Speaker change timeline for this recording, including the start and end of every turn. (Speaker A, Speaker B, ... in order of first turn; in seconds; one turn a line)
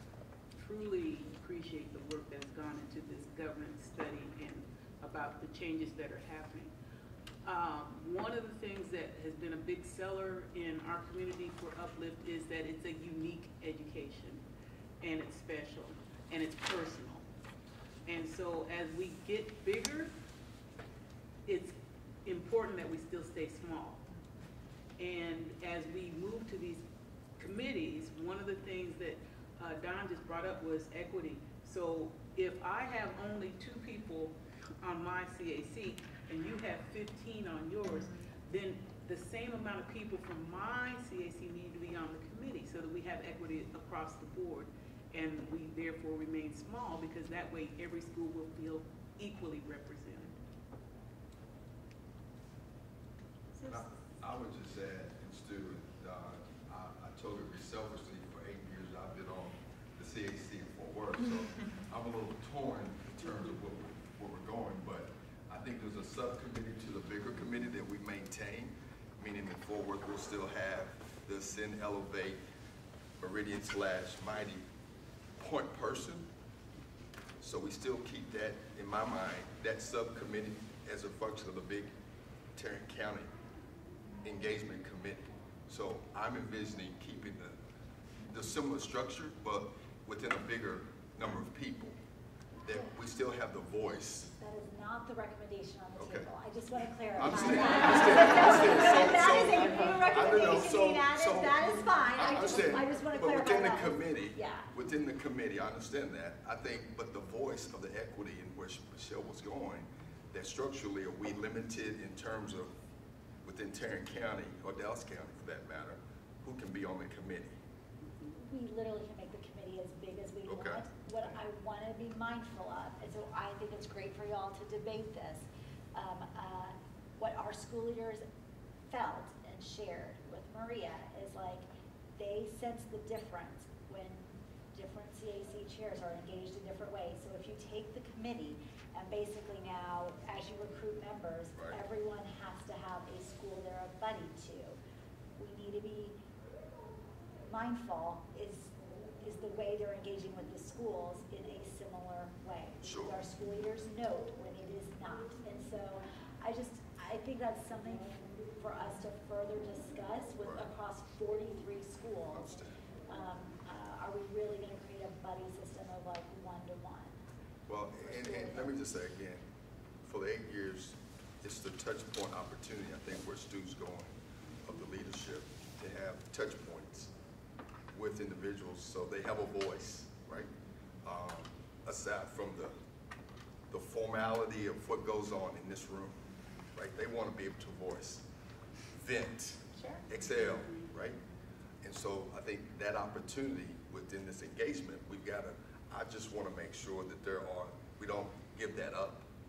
Speaker A: 0.5-6.7
Speaker A: 7.4-14.4
Speaker A: 15.0-17.2
Speaker A: 18.1-20.1
Speaker A: 21.4-21.7
Speaker A: 22.2-24.0
Speaker A: 25.0-26.8
Speaker A: 27.4-50.4
Speaker A: 53.6-53.9
Speaker B: 53.6-72.4
Speaker B: 73.2-74.6
Speaker B: 75.4-76.3
Speaker B: 77.4-81.9
Speaker B: 82.5-83.3
Speaker B: 84.2-87.6
Speaker B: 88.2-92.0
Speaker B: 92.6-94.3
Speaker C: 94.4-104.7
Speaker B: 96.0-96.3
Speaker B: 97.2-112.8
Speaker B: 113.4-117.6
Speaker C: 118.2-128.2
Speaker B: 120.5-120.8
Speaker C: 128.9-144.8
Speaker B: 141.5-141.8
Speaker C: 145.4-146.2
Speaker C: 147.4-162.4
Speaker B: 152.8-153.2
Speaker B: 160.4-160.7
Speaker B: 162.3-162.7
Speaker C: 163.1-167.2
Speaker B: 167.7-169.4
Speaker C: 168.0-168.7
Speaker B: 170.0-177.1
Speaker B: 177.9-180.5
Speaker B: 181.0-182.8
Speaker B: 183.7-188.2
Speaker B: 188.9-191.2
Speaker B: 191.8-199.2